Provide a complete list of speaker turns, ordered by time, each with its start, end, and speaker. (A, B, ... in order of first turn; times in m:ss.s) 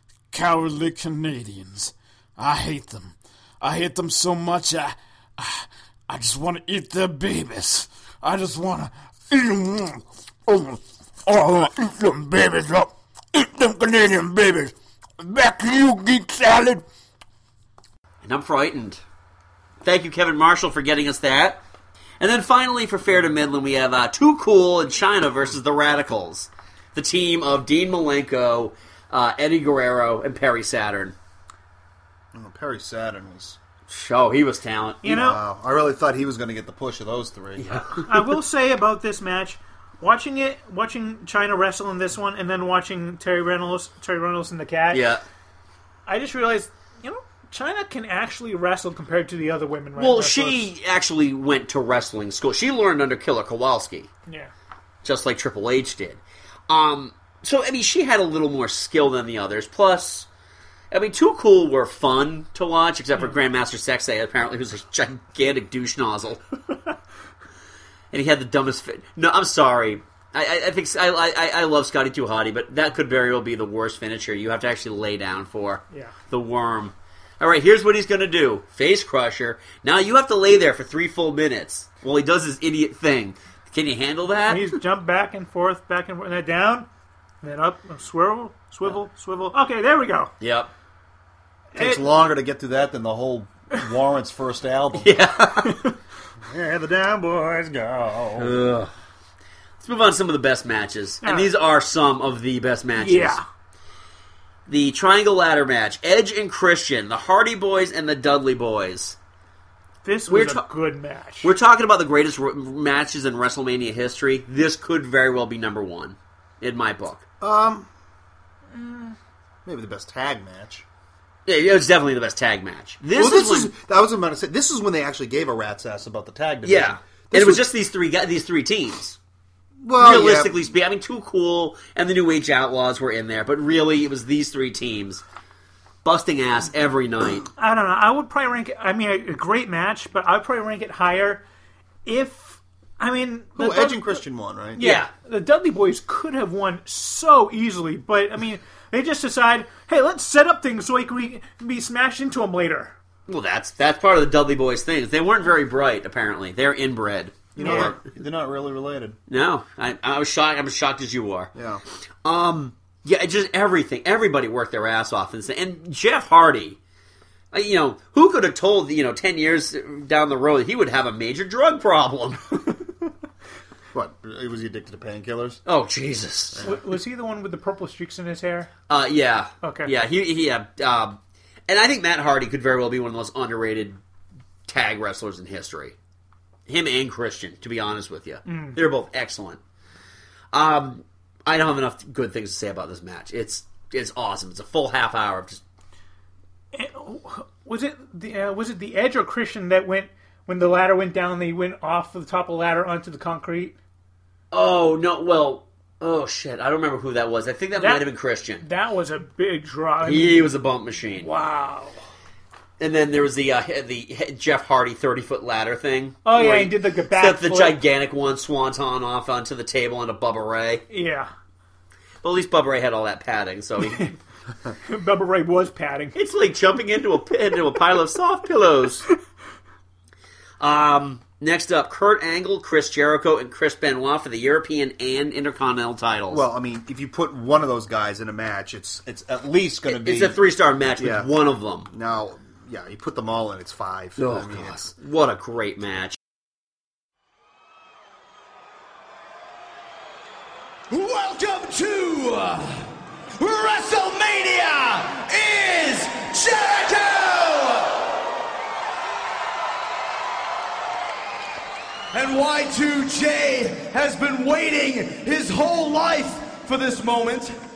0:00.3-0:16.8 A
0:18.2-0:19.0 B
0:19.8-0:21.6 B
0:22.2-0:31.1 B
0:32.3-0:33.6 C
0:33.9-0:35.1 B
0:35.0-0:35.4 D
0:35.0-0:37.8 C
0:37.6-0:38.1 B
0:38.0-0:45.0 D
0:44.9-0:45.2 B
0:46.1-0:50.7 D
0:50.0-0:54.1 B
0:54.3-0:54.5 D
0:55.0-1:00.3 B
1:00.9-1:06.4 B
1:08.1-1:24.7 B
1:24.5-1:26.9 D
1:27.4-1:30.3 D
1:30.4-1:30.7 B
1:31.7-1:32.0 D
1:31.8-1:35.1 C
1:35.0-1:35.8 B
1:36.4-1:38.5 C
1:38.4-1:38.9 B
1:39.8-1:43.4 B
1:41.2-1:41.5 D
1:43.0-1:43.4 D
1:44.7-1:49.2 B
1:50.0-1:51.5 D
1:50.3-1:50.7 B
1:51.4-1:57.2 B
1:57.4-1:57.9 C
1:58.8-1:59.1 D
1:59.6-2:00.8 C
2:01.4-2:03.7 B
2:03.1-2:07.6 C
2:06.6-2:09.2 B
2:09.8-2:10.7 C
2:10.0-2:15.2 B
2:16.0-2:17.5 B
2:17.6-2:21.4 D
2:22.0-2:24.2 D
2:23.6-2:24.8 C
2:24.8-2:32.9 D
2:24.8-2:25.1 B
2:33.3-2:38.0 B
2:37.5-2:39.2 C
2:37.6-2:37.9 D
2:39.3-2:41.5 B
2:41.5-2:41.8 C
2:42.2-2:46.8 B
2:47.5-2:52.6 B
2:53.9-2:55.6 C
2:55.6-2:56.6 B
2:56.5-2:56.8 C
2:56.6-2:58.7 D
2:58.9-3:04.0 B
2:59.6-2:59.9 D
3:04.7-3:05.9 B
3:06.7-3:09.6 B
3:08.4-3:08.8 D
3:10.5-3:15.6 B
3:16.7-3:23.8 D
3:24.5-3:28.6 B
3:27.8-3:28.0 D
3:28.6-3:30.5 D
3:30.0-3:31.3 B
3:31.2-3:31.9 D
3:32.8-3:40.8 B
3:36.2-3:37.8 D
3:40.9-3:41.3 D
3:42.2-3:44.1 B
3:44.8-3:46.1 D
3:46.1-3:49.0 B
3:50.6-3:56.4 B
3:56.3-4:00.4 C
3:59.9-4:01.9 B
4:01.0-4:01.3 C
4:01.9-4:04.9 C
4:04.2-4:06.2 B
4:10.9-4:12.9 E
4:13.4-4:18.1 E
4:22.1-4:27.5 E